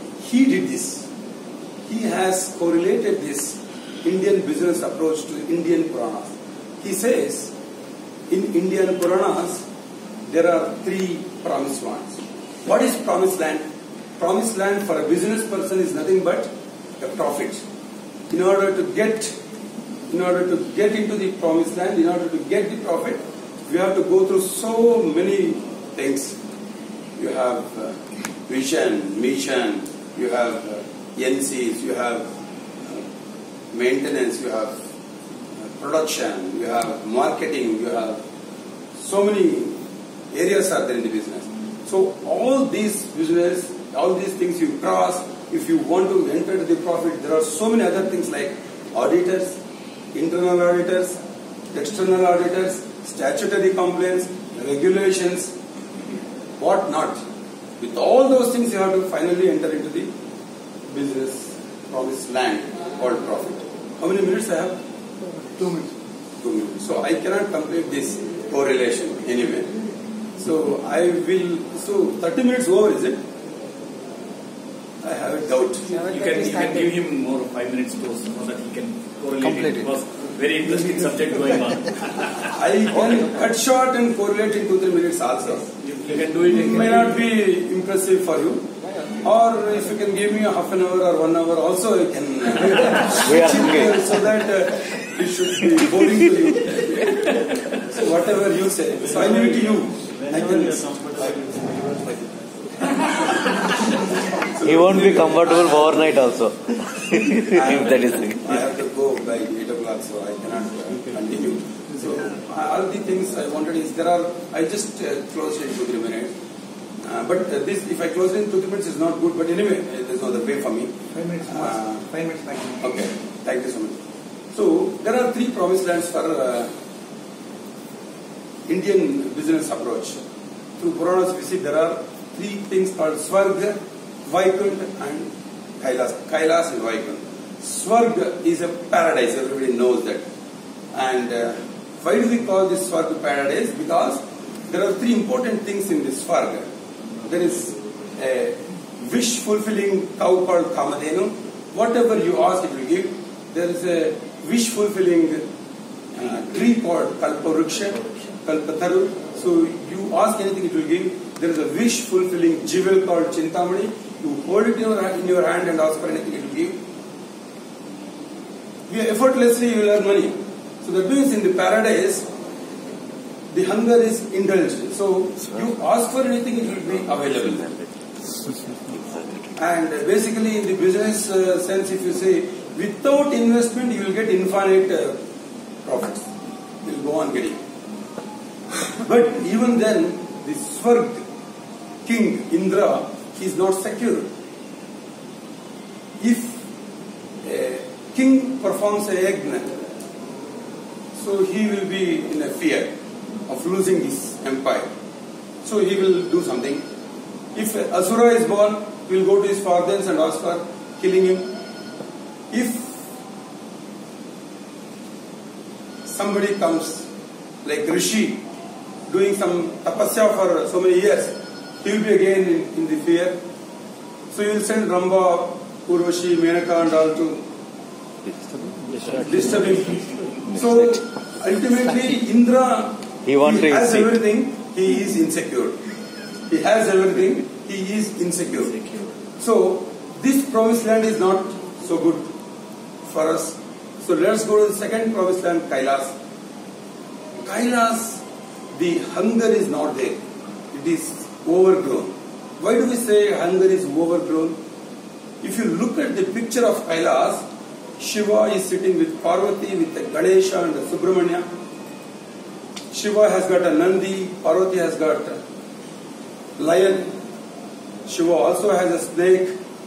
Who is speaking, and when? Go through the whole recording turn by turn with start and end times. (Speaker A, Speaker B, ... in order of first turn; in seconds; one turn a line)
Speaker A: 0.2-1.1
Speaker A: 1.9-7.5
Speaker A: 8.3-9.6
Speaker A: 10.3-13.6
Speaker A: 14.2-17.6
Speaker A: 18.3-19.3
Speaker A: 20.1-26.4
Speaker A: 27.2-32.3
Speaker A: 33.7-34.8
Speaker A: 35.8-38.2
Speaker A: 39.0-39.8
Speaker A: 40.3-49.6
Speaker A: 50.1-51.2
Speaker A: 51.7-55.5
Speaker A: 56.6-57.2
Speaker A: 57.8-60.1
Speaker A: 60.9-64.8
Speaker B: 65.5-65.9
Speaker A: 66.4-69.7
Speaker A: 70.3-73.2
Speaker A: 75.0-76.0
Speaker C: 75.9-82.3
Speaker B: 79.6-79.9
Speaker A: 82.4-85.7
Speaker C: 85.8-87.2
Speaker A: 86.4-100.9
Speaker D: 93.2-94.1
Speaker C: 99.1-102.5
Speaker A: 104.4-105.9
Speaker D: 104.6-108.6
Speaker A: 107.5-116.3
Speaker A: 117.0-122.2
Speaker B: 121.2-122.8
Speaker A: 122.8-124.0
Speaker A: 124.5-126.7
Speaker A: 128.7-130.2
Speaker A: 130.8-140.2
Speaker A: 140.9-146.7
Speaker A: 147.2-155.4
Speaker A: 156.1-166.8
Speaker A: 168.9-172.3
Speaker A: 173.5-177.7
Speaker D: 179.1-179.3
Speaker A: 179.6-185.2
Speaker A: 185.8-186.3
Speaker A: 186.8-187.6
Speaker A: 188.9-191.2
Speaker A: 192.1-194.3
Speaker A: 196.2-196.6
Speaker A: 197.4-199.7
Speaker A: 201.2-202.9
Speaker A: 203.5-204.9
Speaker A: 205.6-206.8
Speaker A: 207.5-211.5
Speaker A: 212.5-213.0
Speaker A: 216.1-217.1
Speaker A: 217.6-218.4
Speaker A: 219.1-223.4
Speaker A: 224.3-227.4
Speaker C: 228.9-230.0
Speaker A: 229.2-235.8
Speaker D: 233.2-234.2
Speaker A: 236.5-238.8
Speaker C: 238.8-239.1
Speaker A: 239.4-242.3
Speaker A: 243.1-246.2
Speaker A: 247.4-248.2
Speaker A: 248.7-250.2
Speaker A: 250.7-254.6
Speaker A: 255.4-257.4
Speaker A: 258.0-261.4
Speaker A: 262.9-265.4
Speaker A: 266.6-267.1
Speaker A: 268.1-269.5